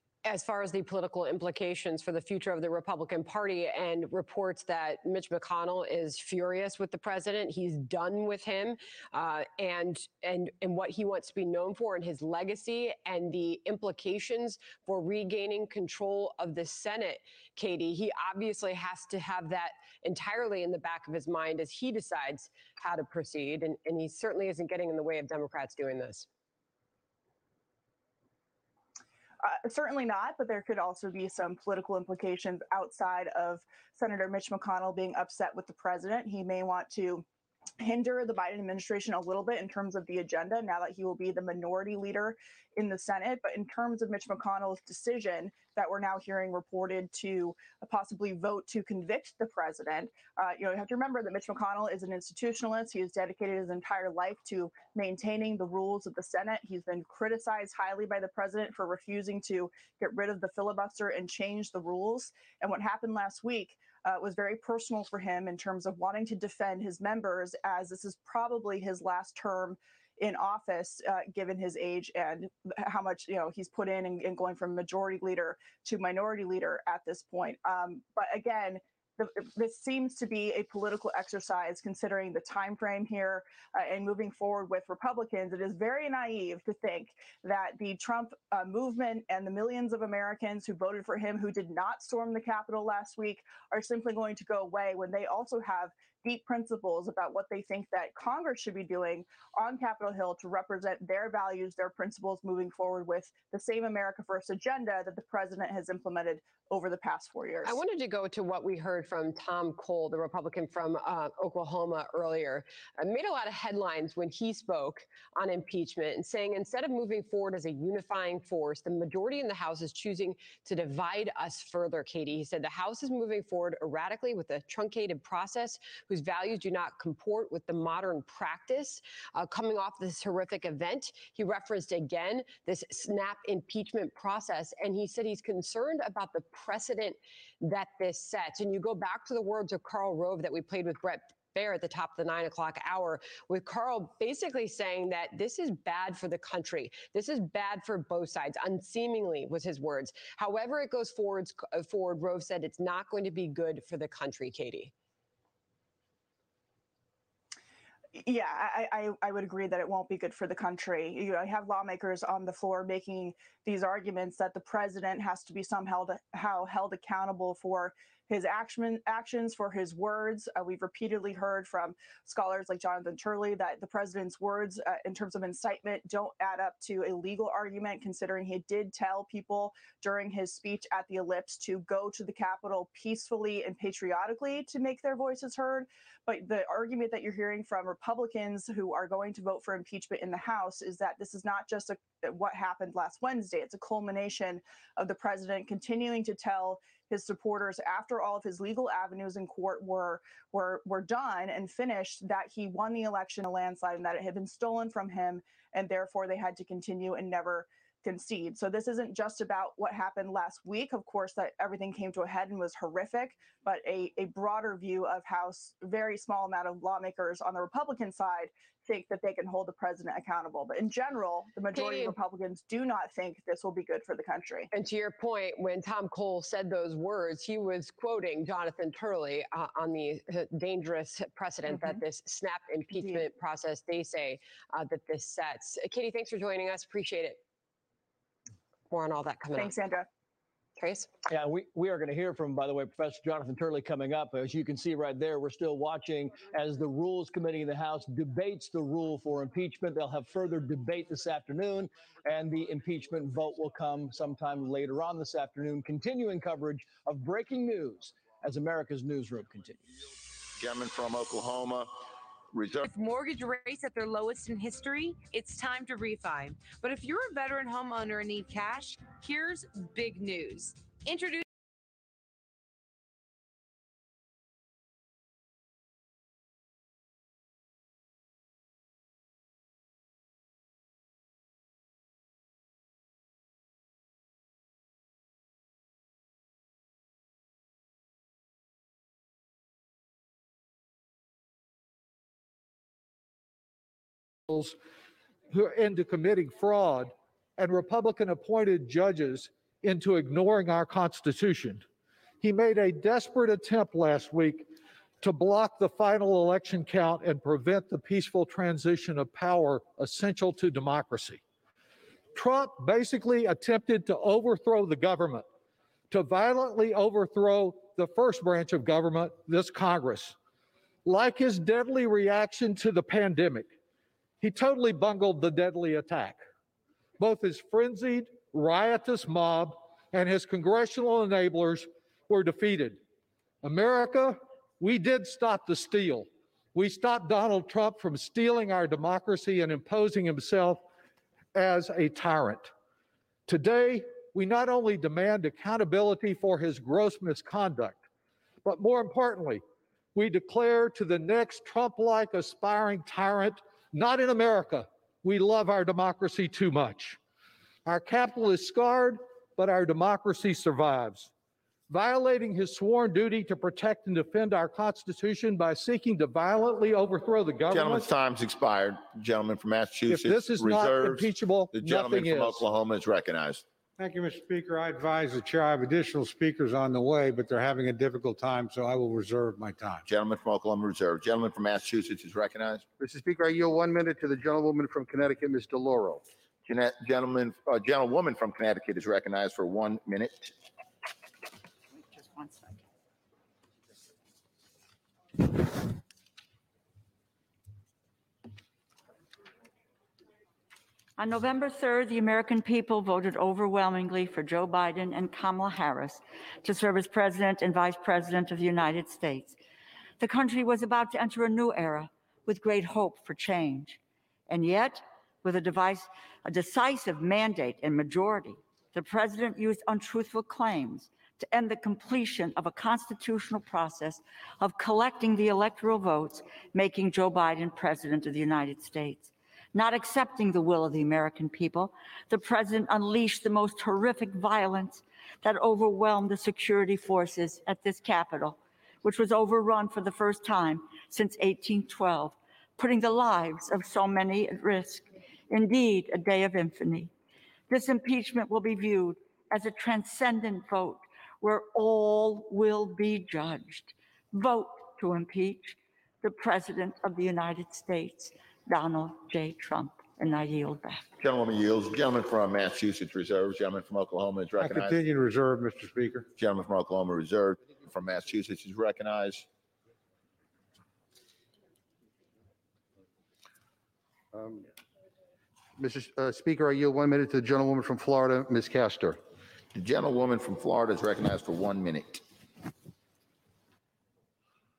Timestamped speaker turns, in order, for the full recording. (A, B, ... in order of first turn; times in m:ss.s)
0:00.2-0:26.3 A
0:29.4-0:37.2 B
0:37.8-1:47.8 B
1:47.6-2:34.9 A
2:38.2-3:44.7 B
3:44.7-3:57.4 A
3:51.7-3:52.0 B
3:52.9-3:53.2 B
3:58.9-3:59.8 A
3:59.5-4:00.1 B
4:00.8-4:01.1 A
4:01.3-4:20.0 C
4:20.6-4:21.9 D
4:22.5-4:22.8 D
4:22.8-4:31.4 E
4:55.5-4:57.1 F
4:57.6-5:01.8 F
5:02.4-5:04.6 F
5:05.2-5:11.4 F
5:12.4-5:15.4 F
5:16.1-5:20.3 F
5:21.1-5:23.6 F
5:24.4-5:26.4 F
5:27.2-5:33.0 F
5:33.6-5:36.2 F
5:36.8-5:40.8 F
5:41.6-5:42.7 F
5:43.5-5:47.9 F
5:48.6-5:49.6 F
5:50.2-5:57.1 F
5:57.9-6:01.3 F
6:01.9-6:08.0 F
6:07.7-6:13.6 D
6:10.1-6:12.5 F
6:14.0-6:20.0 G
6:20.0-6:22.8 D
6:23.0-6:26.2 H
6:26.6-6:30.5 D
6:32.0-6:32.8 I
6:41.2-6:49.6 I
6:50.2-7:27.1 I
7:27.7-7:41.0 I
7:41.2-7:45.0 D
7:44.6-7:46.3 G
7:46.4-7:49.4 D
7:54.3-7:54.6 H
7:55.8-7:59.2 H
7:59.7-8:02.2 D